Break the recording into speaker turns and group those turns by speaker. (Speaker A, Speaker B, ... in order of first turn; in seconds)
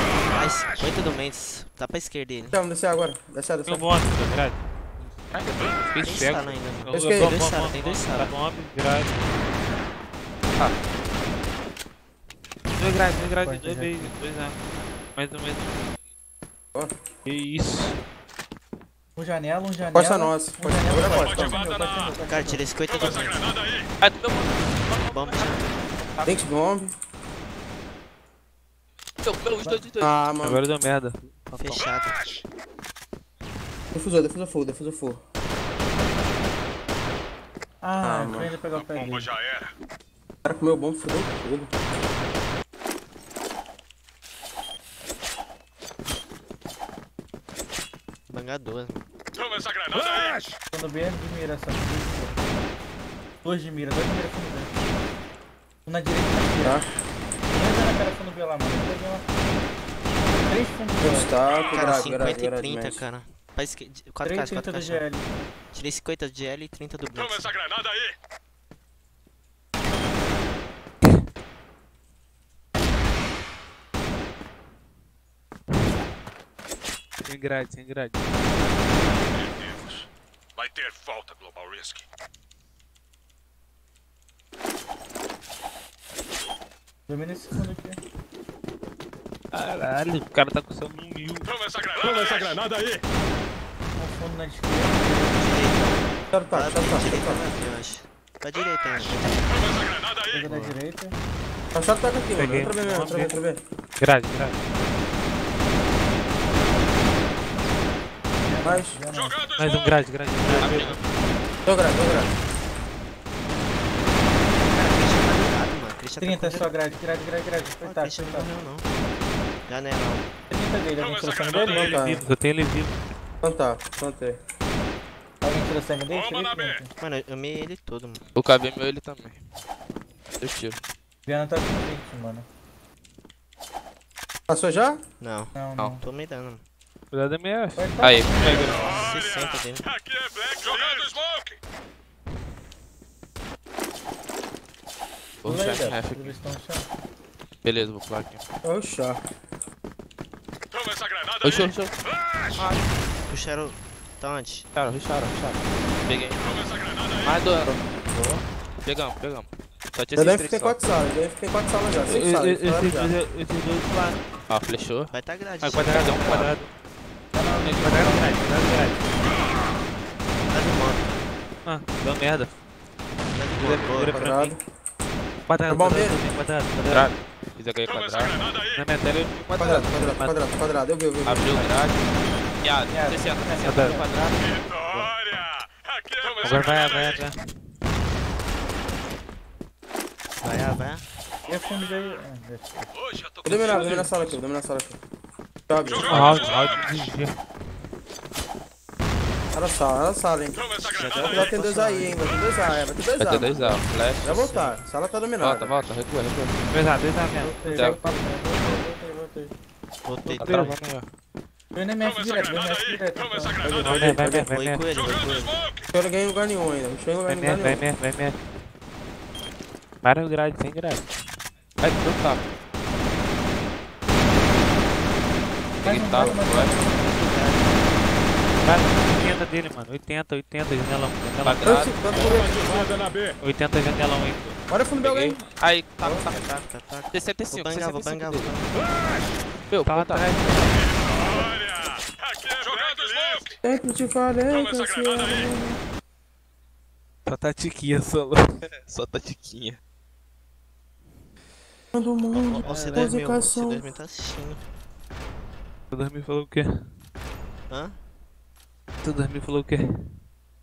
Speaker A: 0.3-2.6, 6.0-8.3, 22.3-23.4, 25.0-25.9, 31.6-32.2, 48.3-49.0, 61.7-65.0, 65.7-67.5, 92.2-92.5, 95.3-99.5, 100.5-100.7, 110.4-111.0, 114.6-118.9, 119.7-120.3, 127.0-128.2, 135.2-136.6, 138.4-139.9, 152.6-154.7, 165.1-166.5, 170.5-171.3, 173.3-174.3, 190.4-191.1, 200.9-202.2, 204.2-204.8, 210.1-210.6, 214.0-215.6, 226.7-228.1, 236.0-238.7, 252.3-254.6, 257.7-258.0
Speaker B: 2.5-3.9, 6.9-7.4, 19.9-21.8, 26.2-26.9, 30.0-30.6, 33.9-35.2, 38.0-38.5, 40.4-41.7, 61.0-63.0, 96.3-97.4, 101.7-103.6, 108.6-109.0, 111.6-112.3, 121.8-122.2, 123.4-124.4, 134.5-135.0, 148.6-149.2, 160.2-163.1, 174.1-174.6, 175.7-176.2, 179.6-181.5, 193.4-195.0, 195.7-196.3, 199.5-200.6, 201.2-205.7, 213.7-214.4, 215.9-217.8, 231.6-233.0, 234.7-235.4, 243.6-245.8, 251.9-253.8
Speaker C: 3.6-4.6, 5.8-9.4, 12.8-14.6, 15.2-15.9, 17.3-18.0, 30.4-31.9, 77.2-78.4, 89.5-91.5, 102.3-103.4, 104.0-104.9, 109.6-111.1, 121.8-123.0, 137.1-138.7, 162.1-164.3, 165.6-166.7, 167.6-169.1, 171.7-172.6, 173.6-174.6, 175.5-177.2, 178.7-180.5, 183.6-184.0, 186.4-187.4, 196.1-197.4, 206.7-208.0, 210.4-210.8, 213.8-214.8, 217.3-218.4, 220.0-221.2, 228.6-231.8, 233.4-234.6, 239.8-241.0, 247.3-248.4, 252.7-253.1, 255.9-256.9, 259.0-260.1
Speaker D: 5.3-5.8, 24.0-26.5, 29.2-30.1, 110.5-111.0, 128.3-129.4, 130.4-130.8, 138.0-138.8, 145.4-146.4, 147.6-148.4, 151.4-152.0, 154.7-156.4, 157.2-160.8, 164.5-165.1, 165.9-166.5, 176.9-178.3, 181.2-182.0, 182.6-184.5, 203.2-204.5, 205.4-206.6, 207.7-208.0, 210.3-211.1, 221.8-222.6, 225.8-226.7, 231.4-232.6, 235.0-236.4, 237.1-238.6, 239.7-240.3, 248.7-249.8
Speaker E: 13.0-14.1, 19.2-22.7, 37.8-39.3, 50.7-52.5, 53.4-54.7, 55.9-56.8, 57.5-59.2, 60.5-61.3, 64.2-65.5, 87.1-88.0, 94.0-95.3, 100.3-101.1, 108.5-109.4, 116.2-118.5, 120.5-122.0, 125.4-126.9, 131.3-132.4, 135.6-136.0, 137.8-139.1, 145.4-146.9, 167.3-168.5, 182.9-184.1, 191.5-192.9, 207.4-209.5, 211.7-213.7, 225.8-227.3
Speaker F: 21.1-22.1, 22.8-23.9, 31.8-32.4, 38.7-39.7, 49.4-50.5, 67.1-68.1, 79.3-82.0, 91.4-93.0, 98.6-100.5, 109.1-110.1, 121.0-122.0, 126.1-126.8, 138.6-141.6, 150.7-152.7, 156.4-157.4, 177.8-178.8, 184.4-187.3, 191.4-192.2, 192.9-194.3, 195.8-197.2, 200.5-201.6, 212.0-214.2, 214.8-215.9, 232.1-233.3, 240.7-243.6, 244.5-245.5